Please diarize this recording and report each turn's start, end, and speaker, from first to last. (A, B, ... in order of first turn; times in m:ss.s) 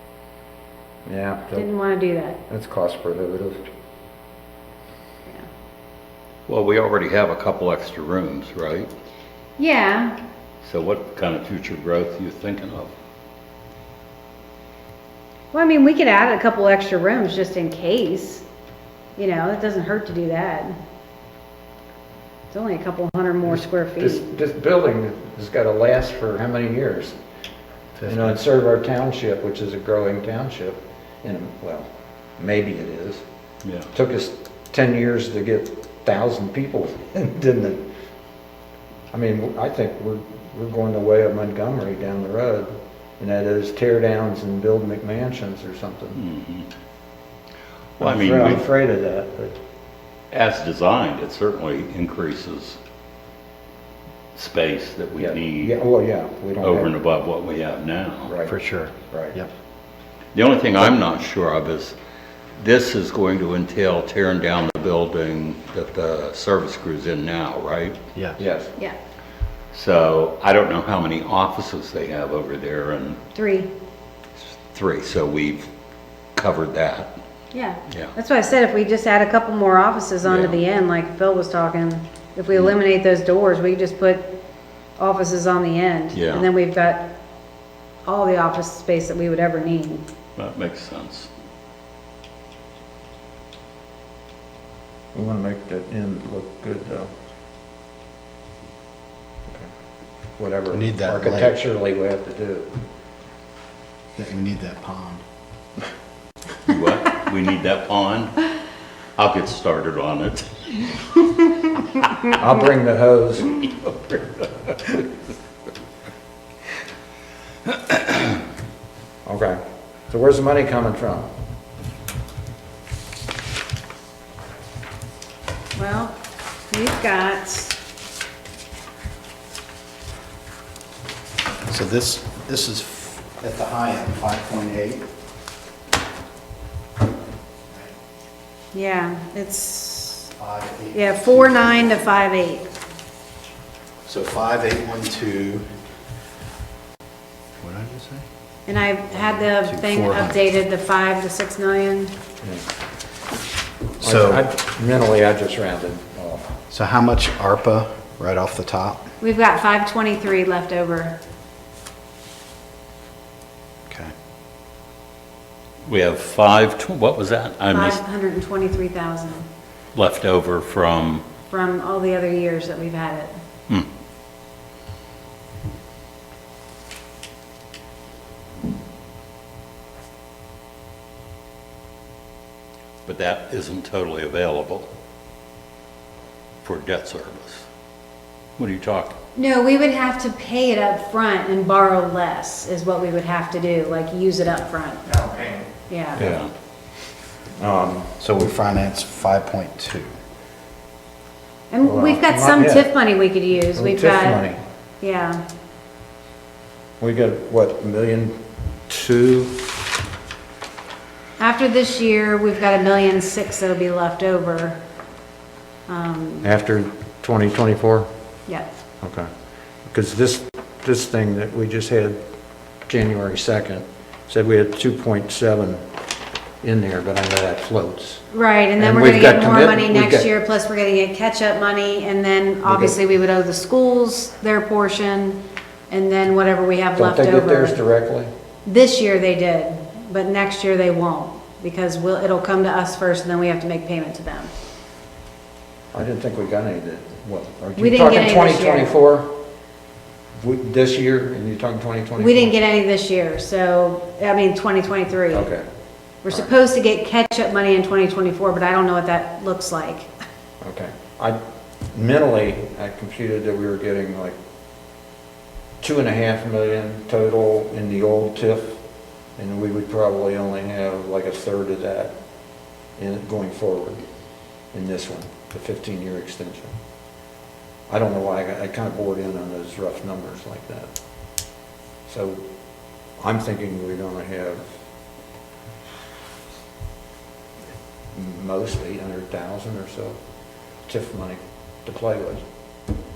0:01.0-0:01.7 A
0:01.5-0:02.4 B
0:02.5-0:03.6 A
0:06.5-0:08.9 C
0:09.6-0:10.2 B
0:10.6-0:12.9 C
0:15.5-0:18.4 B
0:19.2-0:20.8 B
0:22.5-0:24.2 B
0:23.4-0:27.2 A
0:28.0-0:28.4 D
0:28.0-0:33.2 A
0:33.9-0:37.8 A
0:39.1-0:46.2 A
0:46.2-0:46.7 C
0:48.0-0:48.6 C
0:48.0-0:49.6 A
0:50.3-0:52.8 C
0:54.3-0:55.8 C
0:55.2-0:56.9 A
0:56.6-0:58.3 C
0:58.2-0:58.5 A
0:58.4-0:59.5 D
0:59.1-0:59.4 A
1:00.3-1:01.9 C
1:02.6-1:08.0 C
1:08.1-1:08.4 D
1:08.4-1:08.7 A
1:09.7-1:13.2 C
1:13.3-1:13.7 B
1:14.7-1:15.7 C
1:16.4-1:17.1 C
1:17.5-1:24.4 B
1:20.2-1:20.6 C
1:25.0-1:27.1 B
1:26.1-1:26.5 C
1:28.0-1:30.0 B
1:30.4-1:31.3 C
1:35.1-1:37.1 A
1:40.4-1:42.8 A
1:40.7-1:41.5 D
1:44.2-1:45.2 D
1:46.6-1:48.5 C
1:49.2-1:50.5 C
1:52.4-1:55.0 A
1:59.2-2:01.3 A
2:05.7-2:06.2 B
2:06.7-2:07.8 B
2:11.7-2:15.1 D
2:18.7-2:20.3 B
2:20.4-2:21.9 D
2:20.9-2:22.6 B
2:24.0-2:25.6 D
2:27.6-2:28.2 D
2:28.6-2:32.1 B
2:29.5-2:30.4 D
2:34.0-2:34.4 D
2:34.0-2:36.6 A
2:36.7-2:39.0 D
2:39.2-2:41.2 B
2:45.8-2:48.0 C
2:47.7-2:49.5 B
2:49.9-2:51.2 C
2:51.5-2:53.3 B
3:03.0-3:04.9 C
3:06.6-3:07.6 C
3:08.6-3:09.2 C
3:09.3-3:15.1 B
3:15.2-3:15.6 A
3:15.9-3:16.2 B
3:16.2-3:16.4 A
3:16.2-3:16.5 C
3:17.6-3:18.1 A
3:18.2-3:20.1 D
3:21.7-3:24.4 B
3:21.8-3:22.9 A
3:23.7-3:24.6 A
3:25.0-3:25.4 B
3:27.0-3:28.4 A
3:28.9-3:29.6 A
3:31.4-3:34.8 B
3:35.9-3:36.5 B
3:36.4-3:38.1 A
3:39.0-3:39.3 A
3:39.9-3:42.2 A
3:42.9-3:45.8 A
3:46.6-3:48.2 A
3:48.3-3:57.8 B
3:48.8-3:50.3 A
3:52.6-3:53.0 A
3:57.0-3:58.3 A
3:58.6-4:04.5 B
4:05.9-4:09.4 A
4:07.8-4:08.9 B
4:10.4-4:12.5 A
4:12.2-4:15.5 B
4:15.3-4:15.6 A
4:16.2-4:20.1 B
4:20.6-4:21.4 A
4:21.9-4:24.4 A
4:25.8-4:28.8 A
4:29.4-4:32.1 A
4:33.0-4:34.0 A
4:34.7-4:36.7 A
4:37.9-4:40.9 A
4:42.1-4:42.4 A
4:43.2-4:44.6 A
4:48.1-4:50.1 A
4:50.9-4:52.4 A